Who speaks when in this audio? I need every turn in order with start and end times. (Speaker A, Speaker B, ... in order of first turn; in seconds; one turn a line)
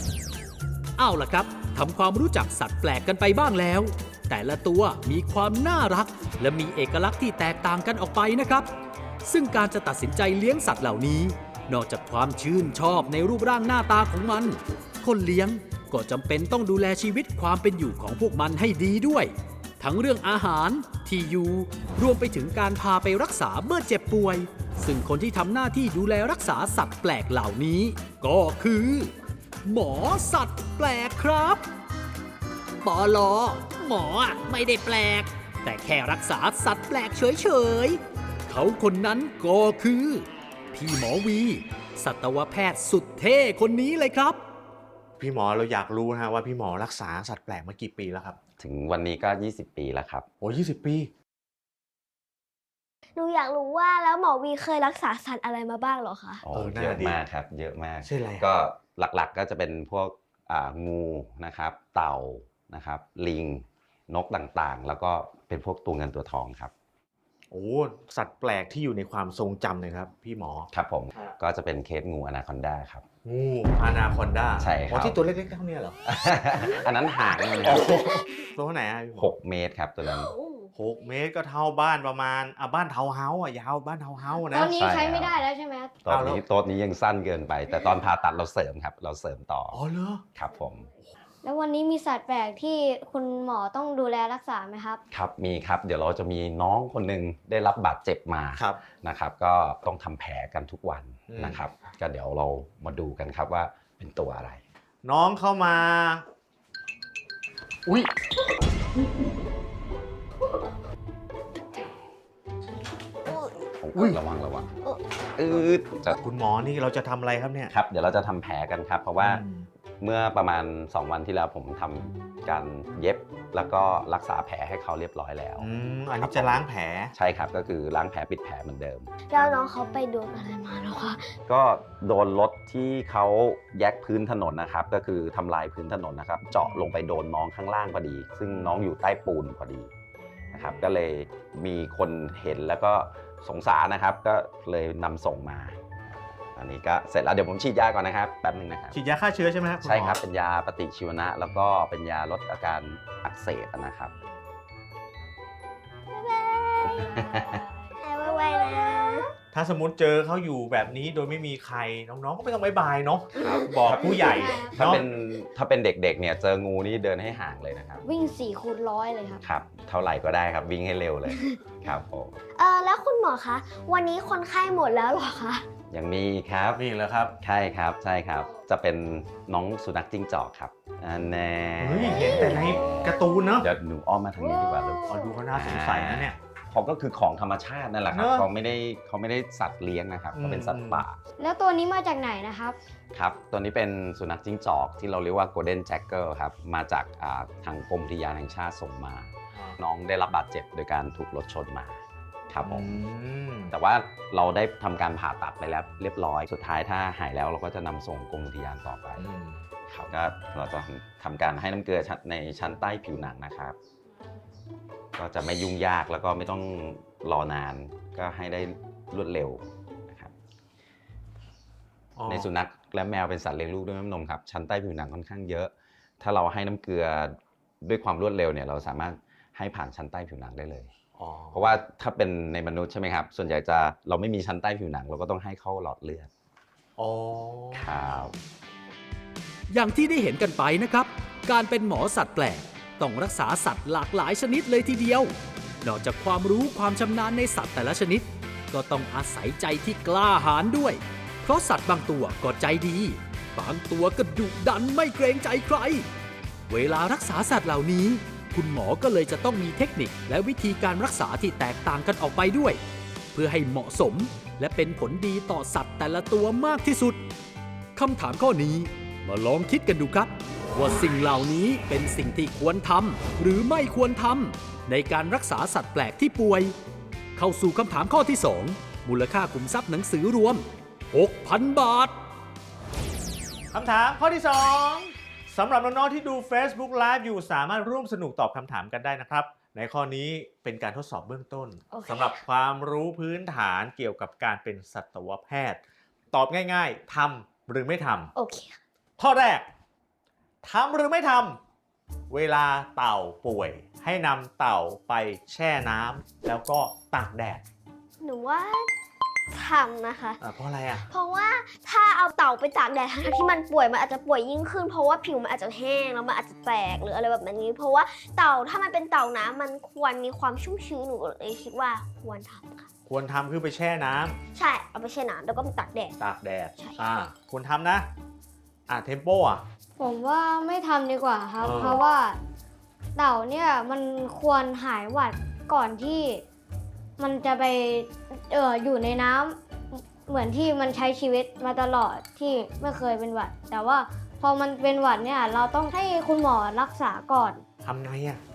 Speaker A: 1.0-8.7
Speaker A: 9.2-29.1
Speaker A: 29.6-31.6
Speaker A: 32.8-44.4
Speaker B: 45.2-48.4
Speaker C: 48.6-50.3
Speaker B: 50.4-51.1
Speaker D: 53.1-56.4
Speaker C: 56.4-66.7
Speaker B: 56.5-57.2
Speaker B: 58.0-58.5
Speaker B: 67.5-70.7
Speaker C: 70.7-73.0
Speaker B: 73.2-76.0
Speaker C: 74.6-75.2
Speaker C: 76.0-78.0
Speaker B: 77.6-79.3
Speaker C: 79.2-80.3
Speaker D: 80.3-80.6
Speaker B: 80.7-84.7
Speaker E: 84.5-85.9
Speaker C: 84.7-85.4
Speaker C: 86.0-89.8
Speaker B: 86.1-86.4
Speaker B: 89.7-90.2
Speaker C: 90.3-90.9
Speaker E: 91.4-95.0
Speaker C: 95.1-104.6
Speaker B: 101.3-101.6
Speaker B: 105.0-106.2
Speaker D: 113.2-113.7
Speaker C: 113.8-114.7
Speaker C: 115.3-116.2
Speaker B: 116.1-117.7
Speaker C: 117.7-119.4
Speaker B: 119.2-119.7
Speaker C: 120.0-125.7
Speaker B: 125.6-127.1
Speaker C: 126.2-126.6
Speaker C: 127.1-129.1
Speaker D: 129.3-131.3
Speaker C: 131.5-139.9
Speaker C: 140.5-145.8
Speaker C: 146.5-149.0
Speaker B: 148.9-150.2
Speaker C: 149.8-154.1
Speaker D: 156.1-157.4
Speaker E: 157.1-157.9
Speaker C: 157.2-157.6
Speaker D: 158.0-159.3
Speaker B: 159.5-165.0
Speaker C: 163.3-168.0
Speaker E: 164.2-164.8
Speaker E: 168.0-169.4
Speaker C: 169.4-172.3
Speaker D: 172.5-175.7
Speaker C: 175.9-176.8
Speaker B: 176.7-177.3
Speaker C: 177.4-183.0
Speaker B: 181.8-183.7
Speaker D: 182.2-182.5
Speaker C: 183.6-191.2
Speaker E: 184.4-185.3
Speaker B: 185.1-186.4
Speaker B: 188.1-188.5
Speaker B: 190.3-191.0
Speaker E: 191.4-192.8
Speaker C: 193.1-202.9
Speaker B: 202.6-203.7
Speaker C: 203.7-209.2
Speaker B: 209.2-209.7
Speaker C: 209.9-213.8
Speaker C: 215.2-220.3
Speaker B: 222.2-222.5
Speaker C: 222.3-230.9
Speaker B: 231.2-231.8
Speaker C: 231.5-236.3
Speaker B: 237.0-237.9
Speaker C: 237.8-238.3
Speaker A: 239.7-256.1
Speaker A: 256.7-262.8
Speaker A: 263.3-267.2
Speaker A: 267.9-276.7
Speaker A: 277.3-282.1
Speaker B: 283.7-295.8
Speaker D: 291.9-292.4
Speaker B: 296.3-298.3
Speaker D: 298.3-298.8
Speaker B: 299.2-299.7
Speaker B: 300.6-301.6
Speaker B: 302.3-307.6
Speaker D: 308.2-308.9
Speaker D: 309.5-310.4
Speaker B: 310.4-311.0
Speaker D: 311.1-322.9
Speaker B: 323.1-324.4
Speaker D: 324.5-326.2
Speaker B: 326.2-328.1
Speaker D: 326.7-327.0
Speaker B: 328.9-329.6
Speaker E: 330.0-332.4
Speaker B: 331.6-332.0
Speaker E: 333.1-336.4
Speaker E: 337.2-347.6
Speaker B: 347.8-348.4